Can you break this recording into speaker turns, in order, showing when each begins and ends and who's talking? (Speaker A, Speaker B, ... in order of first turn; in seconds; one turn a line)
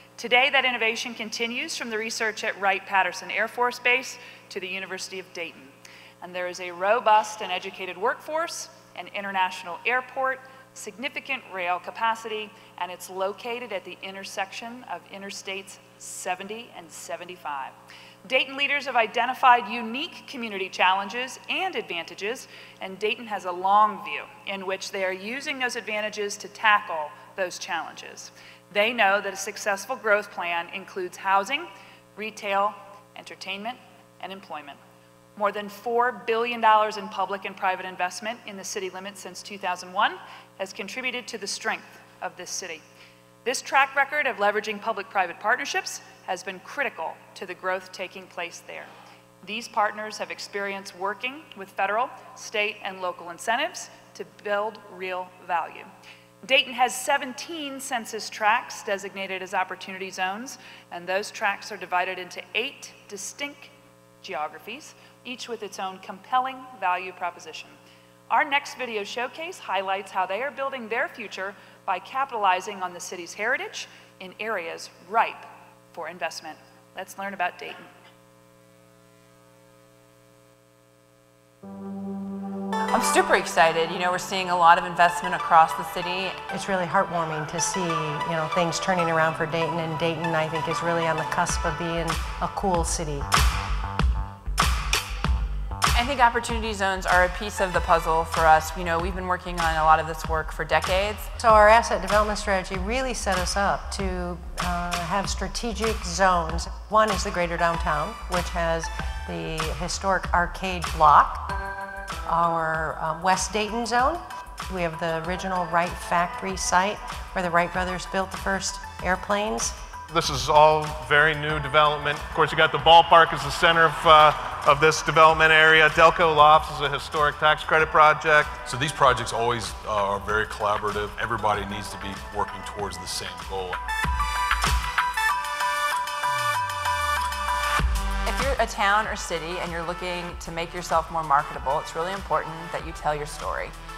Speaker A: 0.2-17.7
Speaker A: 18.2-34.8
Speaker A: 35.4-42.8
Speaker A: 43.5-48.9
Speaker A: 49.4-55.9
Speaker A: 56.4-67.8
Speaker A: 68.3-77.9
Speaker B: 82.9-86.4
Speaker C: 86.5-93.3
Speaker B: 95.9-101.3
Speaker C: 101.4-111.6
Speaker C: 112.3-119.8
Speaker D: 120.1-128.6
Speaker E: 128.7-133.8
Speaker B: 138.2-143.7